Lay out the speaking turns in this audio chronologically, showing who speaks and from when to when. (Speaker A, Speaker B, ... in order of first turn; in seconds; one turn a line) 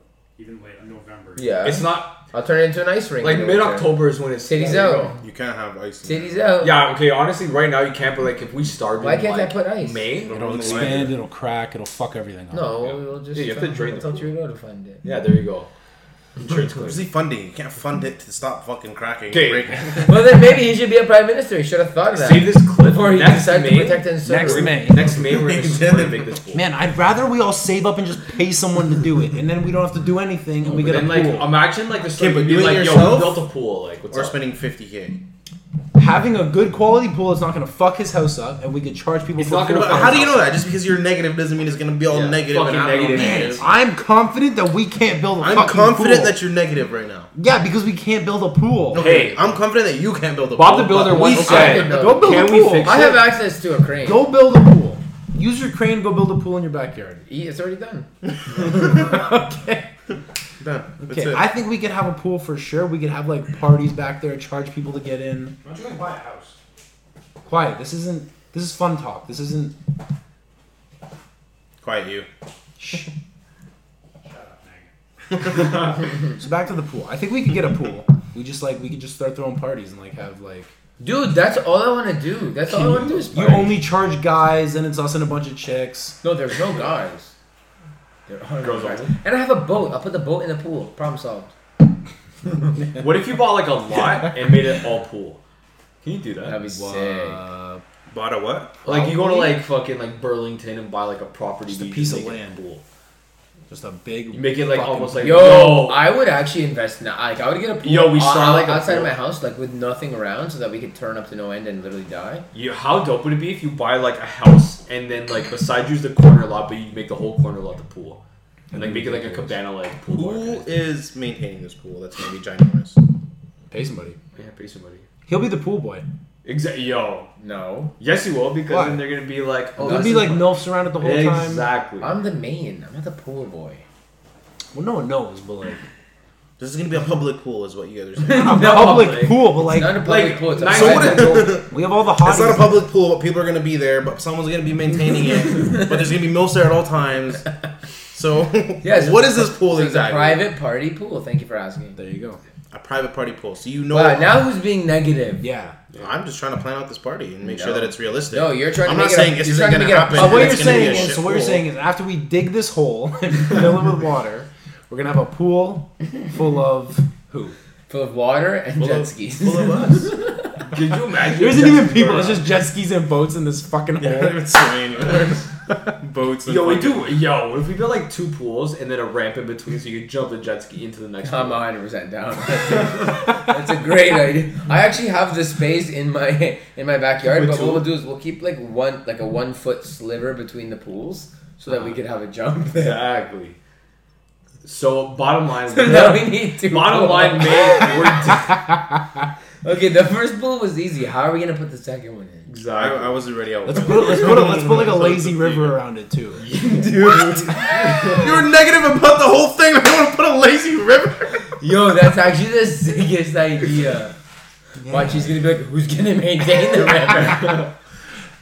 Speaker A: 0.3-1.6
Speaker B: 1.4-5.2
Speaker C: 1.6-2.2
Speaker C: 3.2-5.2
Speaker D: 5.2-6.4
Speaker B: 6.0-6.8
Speaker C: 6.6-11.1
Speaker B: 9.0-10.1
Speaker D: 10.2-11.2
Speaker E: 10.6-12.9
Speaker B: 12.5-15.0
Speaker C: 13.3-14.3
Speaker C: 15.0-15.7
Speaker C: 16.4-17.0
Speaker D: 16.8-20.2
Speaker C: 19.3-20.0
Speaker B: 20.0-24.8
Speaker C: 22.1-26.6
Speaker E: 24.2-25.2
Speaker D: 25.2-26.4
Speaker E: 26.5-31.7
Speaker C: 30.6-34.4
Speaker D: 32.1-33.5
Speaker D: 34.1-35.2
Speaker E: 35.9-40.4
Speaker C: 39.4-40.5
Speaker D: 39.8-43.7
Speaker C: 42.1-43.7
Speaker E: 43.1-46.4
Speaker D: 45.4-47.3
Speaker E: 47.3-49.1
Speaker D: 48.9-52.0
Speaker C: 48.9-49.4
Speaker C: 50.5-53.2
Speaker B: 51.3-54.2
Speaker E: 51.4-53.1
Speaker E: 54.0-57.2
Speaker B: 57.3-58.1
Speaker E: 58.5-59.9
Speaker D: 60.6-61.5
Speaker E: 61.0-65.6
Speaker A: 65.6-66.6
Speaker E: 67.4-69.7
Speaker D: 71.8-72.3
Speaker E: 72.8-73.1
Speaker A: 74.2-74.9
Speaker E: 75.9-80.7
Speaker B: 81.0-83.7
Speaker E: 82.7-86.2
Speaker C: 83.1-83.7
Speaker B: 86.2-87.3
Speaker B: 88.3-91.5
Speaker C: 88.6-89.2
Speaker C: 93.0-95.4
Speaker C: 96.0-96.6
Speaker B: 96.4-97.4
Speaker E: 96.6-97.8
Speaker D: 98.1-98.8
Speaker C: 98.8-102.8
Speaker B: 98.8-99.5
Speaker E: 101.7-102.6
Speaker E: 103.7-105.6
Speaker C: 104.3-106.0
Speaker B: 105.2-112.4
Speaker C: 107.8-109.1
Speaker C: 112.5-120.7
Speaker E: 118.7-119.6
Speaker D: 120.1-123.0
Speaker E: 123.7-124.2
Speaker C: 124.3-125.1
Speaker E: 125.3-126.0
Speaker C: 126.4-127.3
Speaker B: 127.4-127.9
Speaker C: 128.0-132.1
Speaker E: 128.7-129.1
Speaker E: 129.8-131.7
Speaker B: 129.8-130.4
Speaker B: 132.0-133.8
Speaker E: 134.7-135.8
Speaker D: 136.6-138.7
Speaker B: 138.2-141.4
Speaker E: 138.3-140.2
Speaker C: 138.5-139.4
Speaker C: 140.0-141.6
Speaker D: 140.7-147.5
Speaker E: 141.0-142.8
Speaker B: 145.6-145.9
Speaker D: 148.1-150.5
Speaker B: 148.8-152.0
Speaker E: 152.0-152.4
Speaker D: 152.7-154.4
Speaker B: 153.9-155.4
Speaker E: 155.4-155.8
Speaker D: 156.0-161.7
Speaker B: 157.4-161.2
Speaker E: 160.1-167.5
Speaker B: 167.9-170.6
Speaker D: 168.8-170.1
Speaker E: 169.5-170.1
Speaker C: 170.7-172.5
Speaker E: 171.3-174.5
Speaker D: 174.0-177.1
Speaker C: 176.4-181.7
Speaker B: 181.2-193.0
Speaker C: 187.3-187.9
Speaker C: 192.8-193.6
Speaker C: 194.6-198.5
Speaker B: 195.7-198.2
Speaker B: 199.6-202.5
Speaker C: 202.5-203.2
Speaker D: 202.7-205.7
Speaker E: 203.7-206.4
Speaker C: 204.5-205.2
Speaker C: 206.4-208.2
Speaker B: 206.5-208.2
Speaker D: 208.1-211.5
Speaker B: 211.6-214.1
Speaker E: 214.8-215.3
Speaker B: 214.9-217.7